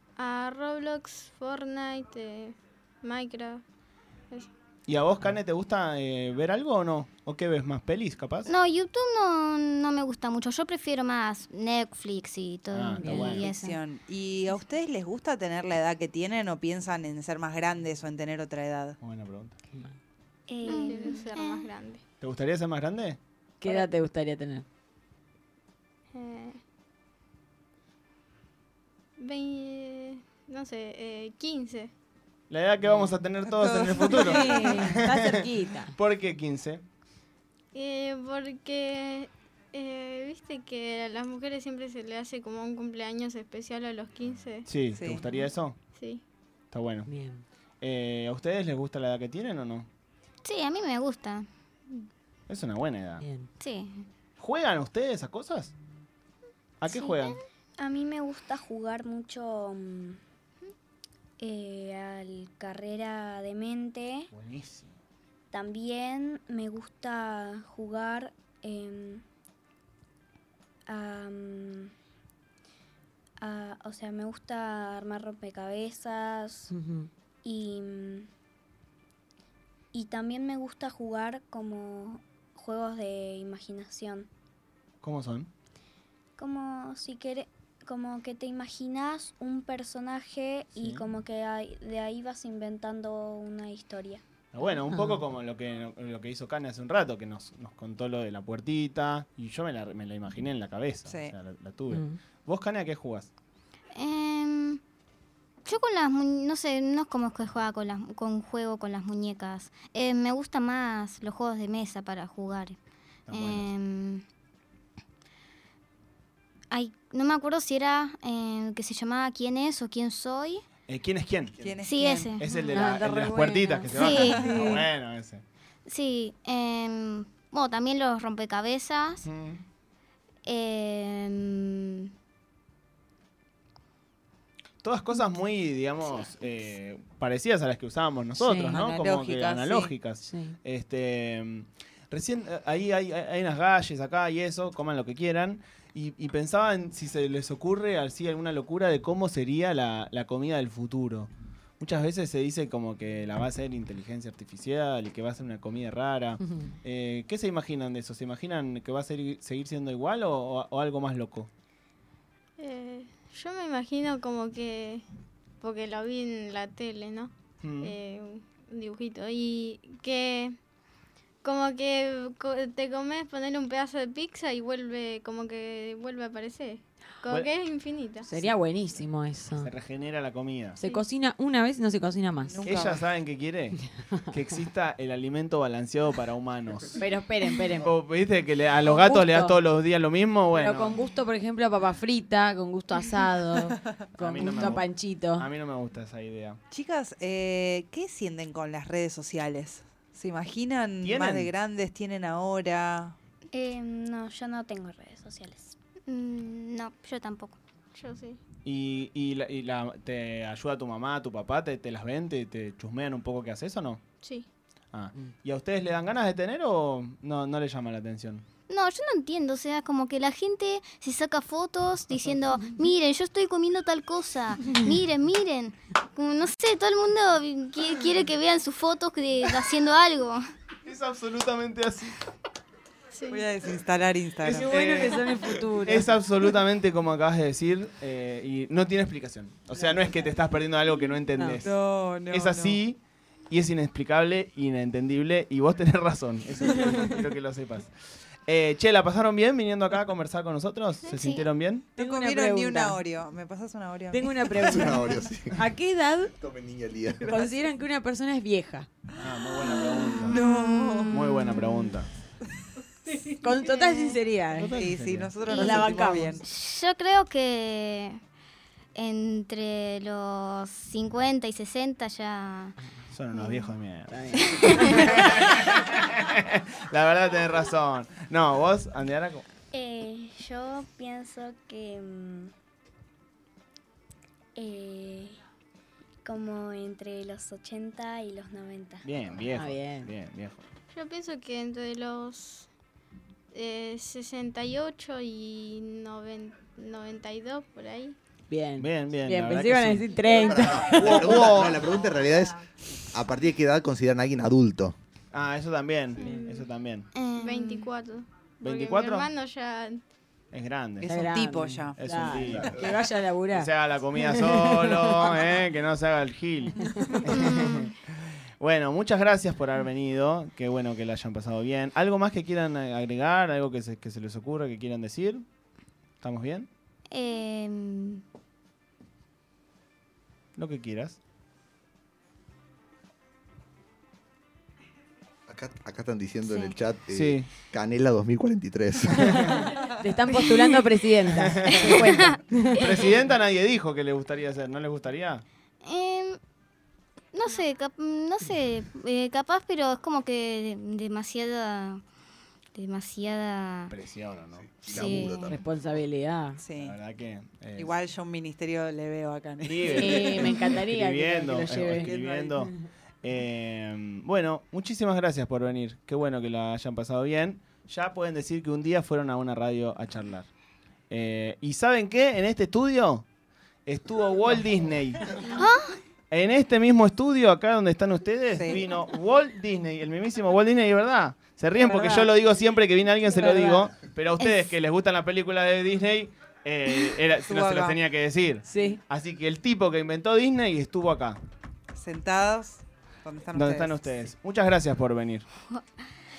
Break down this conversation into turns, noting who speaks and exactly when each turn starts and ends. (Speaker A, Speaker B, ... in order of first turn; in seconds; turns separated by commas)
Speaker A: 0.2-3.6, Speaker B: 4.9-8.5, Speaker C: 8.5-13.8, Speaker B: 12.7-13.5, Speaker D: 13.0-13.3, Speaker E: 13.1-19.0, Speaker B: 19.0-19.6, Speaker F: 20.5-21.3, Speaker C: 20.6-21.7, Speaker A: 20.6-22.0, Speaker B: 22.2-23.2, Speaker D: 23.6-24.6, Speaker A: 26.1-26.6, Speaker A: 29.2-31.9, Speaker B: 32.5-36.8, Speaker E: 33.5-34.8, Speaker D: 34.0-36.0, Speaker A: 37.7-44.8, Speaker B: 44.6-45.8, Speaker E: 44.9-45.3, Speaker A: 45.9-46.2, Speaker B: 46.7-47.1, Speaker D: 47.1-47.4, Speaker B: 47.8-49.9, Speaker C: 50.5-52.1, Speaker B: 52.5-53.2, Speaker D: 53.2-53.5, Speaker C: 53.6-54.1, Speaker B: 54.4-55.7, Speaker B: 56.8-57.4, Speaker C: 56.9-57.4, Speaker F: 57.8-60.2, Speaker F: 61.4-64.3, Speaker B: 64.3-64.9, Speaker F: 65.5-69.2, Speaker F: 70.9-71.9, Speaker F: 73.4-76.7, Speaker D: 76.7-77.1, Speaker F: 77.4-78.3, Speaker F: 79.9-84.3, Speaker B: 85.0-85.5, Speaker F: 86.4-94.2, Speaker B: 90.8-91.0, Speaker B: 94.5-103.3, Speaker D: 94.9-95.2, Speaker E: 101.1-101.4, Speaker D: 101.9-102.2, Speaker C: 104.0-104.8, Speaker C: 105.7-112.8, Speaker B: 113.3-113.7, Speaker C: 113.3-114.2, Speaker C: 116.7-120.6, Speaker B: 120.9-121.6, Speaker E: 121.6-122.4, Speaker C: 121.8-122.7, Speaker B: 122.4-125.4, Speaker D: 122.7-124.8, Speaker C: 123.9-124.5, Speaker E: 124.5-124.8, Speaker C: 125.9-129.2, Speaker B: 129.2-129.6, Speaker C: 130.4-132.1, Speaker B: 134.8-161.5, Speaker D: 138.4-138.8, Speaker E: 138.7-140.0, Speaker D: 140.2-140.6, Speaker A: 162.6-165.1, Speaker A: 165.6-170.6, Speaker B: 167.6-167.9, Speaker A: 171.4-178.3, Speaker D: 178.3-179.7, Speaker B: 178.4-179.0, Speaker B: 179.6-180.8, Speaker D: 180.8-182.7, Speaker E: 182.5-183.1, Speaker B: 182.6-187.0, Speaker D: 187.0-187.9, Speaker B: 187.8-191.0, Speaker D: 188.8-189.6, Speaker D: 190.6-195.5, Speaker B: 194.2-196.6, Speaker E: 196.7-203.2, Speaker B: 201.0-201.5, Speaker F: 203.5-205.7, Speaker C: 206.1-207.6, Speaker A: 207.9-208.4, Speaker B: 208.7-214.0, Speaker A: 214.2-214.5, Speaker B: 214.9-218.4, Speaker C: 218.7-230.4, Speaker B: 230.8-232.2, Speaker A: 233.1-233.5, Speaker E: 233.3-234.7, Speaker B: 234.4-247.9, Speaker D: 234.5-236.2, Speaker E: 241.6-242.8, Speaker B: 248.5-251.9, Speaker C: 251.1-251.4, Speaker E: 252.0-255.2, Speaker D: 252.0-253.0, Speaker D: 254.1-256.3, Speaker G: 254.6-255.6, Speaker G: 256.4-257.3, Speaker D: 257.3-258.9, Speaker B: 259.1-260.4, Speaker C: 259.9-261.9, Speaker E: 260.3-261.4, Speaker B: 261.1-262.1, Speaker A: 263.1-264.2, Speaker D: 263.4-264.7, Speaker B: 264.5-265.3, Speaker E: 264.7-266.5, Speaker D: 265.5-266.4, Speaker C: 265.5-265.8, Speaker C: 266.4-268.2, Speaker C: 268.9-272.8, Speaker B: 273.1-279.4, Speaker C: 273.4-273.7, Speaker D: 274.1-275.3, Speaker C: 274.4-275.1, Speaker F: 279.7-282.5, Speaker F: 284.6-285.4, Speaker F: 286.2-289.1, Speaker B: 289.0-290.6, Speaker D: 289.5-290.1, Speaker A: 290.9-292.7, Speaker A: 293.5-298.2, Speaker D: 298.5-301.4, Speaker B: 298.8-300.1, Speaker G: 300.3-305.0, Speaker B: 300.9-301.8, Speaker B: 305.3-307.1, Speaker A: 306.2-306.7, Speaker C: 307.1-307.9, Speaker A: 307.4-310.0, Speaker B: 308.6-309.3, Speaker B: 310.5-311.1, Speaker E: 311.0-312.0, Speaker D: 311.1-315.3, Speaker B: 312.0-312.8, Speaker G: 312.5-312.8, Speaker B: 313.5-318.0, Speaker C: 317.3-317.9, Speaker B: 318.6-325.4, Speaker B: 326.2-326.7, Speaker C: 327.1-328.2, Speaker B: 330.6-331.2, Speaker G: 335.5-339.6, Speaker B: 337.1-337.5, Speaker D: 339.2-342.9, Speaker B: 339.2-339.7, Speaker B: 340.4-340.7, Speaker B: 341.3-345.4, Speaker C: 341.8-342.8, Speaker C: 345.8-346.4, Speaker C: 347.3-352.0, Speaker C: 352.8-353.9, Speaker B: 353.9-355.1, Speaker G: 354.7-355.6, Speaker C: 354.9-355.5, Speaker D: 355.5-356.6, Speaker E: 356.6-357.0, Speaker B: 356.8-357.9, Speaker E: 357.8-360.5, Speaker B: 359.6-370.5, Speaker D: 359.9-362.1, Speaker E: 361.9-362.6, Speaker B: 371.1-373.2, Speaker B: 373.9-375.6, Speaker C: 375.6-376.0, Speaker B: 376.3-391.4, Speaker E: 378.5-378.8, Speaker D: 381.8-382.3, Speaker D: 383.3-383.9, Speaker E: 387.4-388.0, Speaker D: 388.7-389.0, Speaker E: 391.9-393.9, Speaker B: 393.5-395.5